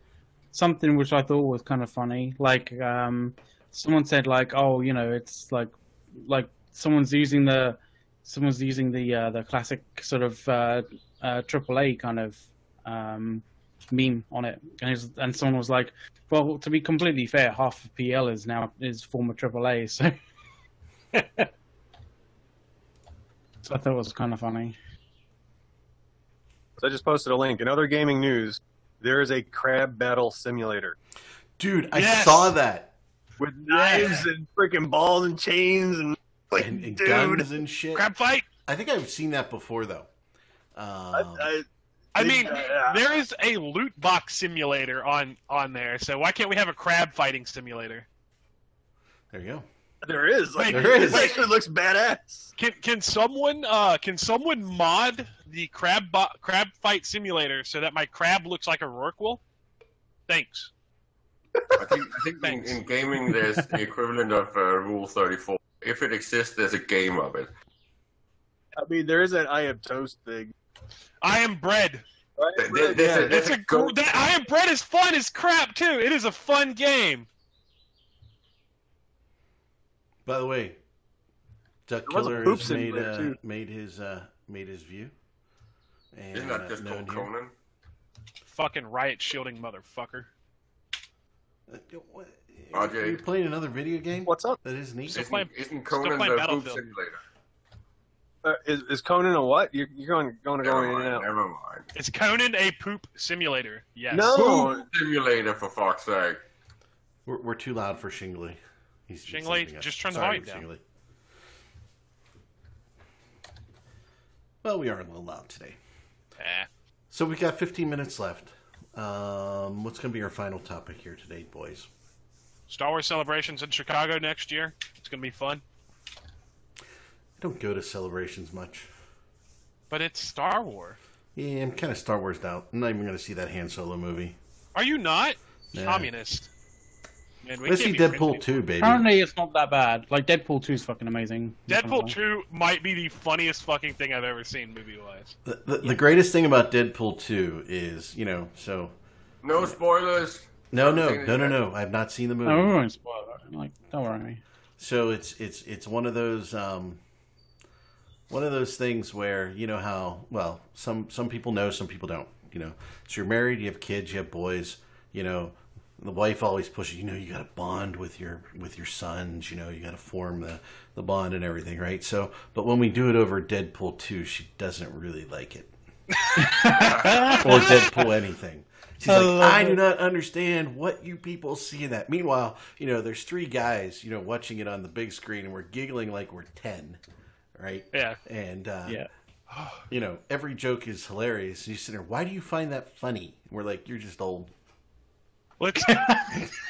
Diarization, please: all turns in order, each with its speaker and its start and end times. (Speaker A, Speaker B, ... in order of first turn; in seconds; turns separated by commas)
Speaker A: 0.5-20.2, Speaker A: 21.1-21.5, Speaker A: 23.6-24.8, Speaker B: 26.8-31.0, Speaker C: 31.6-32.9, Speaker D: 31.9-32.5, Speaker B: 33.4-37.5, Speaker D: 33.7-34.3, Speaker C: 36.5-38.1, Speaker D: 38.0-38.5, Speaker C: 38.7-40.1, Speaker C: 40.8-41.5, Speaker B: 41.1-43.1, Speaker D: 42.1-48.1, Speaker C: 49.3-49.7, Speaker B: 50.0-52.5, Speaker D: 50.6-51.4, Speaker C: 50.7-51.4, Speaker D: 52.6-59.4, Speaker D: 60.3-60.7, Speaker B: 61.5-62.0, Speaker E: 61.8-67.5, Speaker D: 62.4-62.8, Speaker B: 68.8-70.5, Speaker D: 71.2-72.0, Speaker B: 72.4-73.5, Speaker E: 72.6-74.0, Speaker D: 73.2-77.3, Speaker C: 80.2-80.8, Speaker C: 81.9-85.1, Speaker B: 82.1-83.4, Speaker C: 86.1-87.3, Speaker E: 86.3-87.5, Speaker D: 88.5-90.3, Speaker C: 91.7-95.3, Speaker E: 92.7-93.2, Speaker B: 94.3-94.6, Speaker D: 95.1-96.8, Speaker E: 95.1-97.2, Speaker B: 98.4-101.3, Speaker E: 100.6-101.9, Speaker D: 102.0-104.4, Speaker B: 104.1-104.9, Speaker E: 104.3-106.4, Speaker C: 107.3-110.8, Speaker D: 109.3-110.7, Speaker C: 114.6-115.8, Speaker D: 116.4-116.7, Speaker C: 117.1-121.9, Speaker D: 122.7-125.6, Speaker C: 127.4-128.9, Speaker D: 129.9-131.0, Speaker C: 131.4-134.4, Speaker D: 134.8-136.5, Speaker C: 135.7-136.1, Speaker D: 137.4-138.6, Speaker C: 137.7-139.1, Speaker A: 138.8-142.2, Speaker D: 141.7-145.3, Speaker C: 145.5-148.9, Speaker E: 149.4-151.6, Speaker C: 150.7-152.7, Speaker A: 152.4-154.4, Speaker C: 154.8-157.0, Speaker C: 158.3-175.7, Speaker D: 176.2-177.9, Speaker A: 176.4-177.8, Speaker E: 176.8-177.4, Speaker C: 177.3-187.0, Speaker A: 179.1-179.8, Speaker C: 187.6-189.0, Speaker D: 187.9-188.2, Speaker D: 189.5-189.8, Speaker C: 189.9-194.5, Speaker D: 195.6-196.5, Speaker A: 195.9-196.4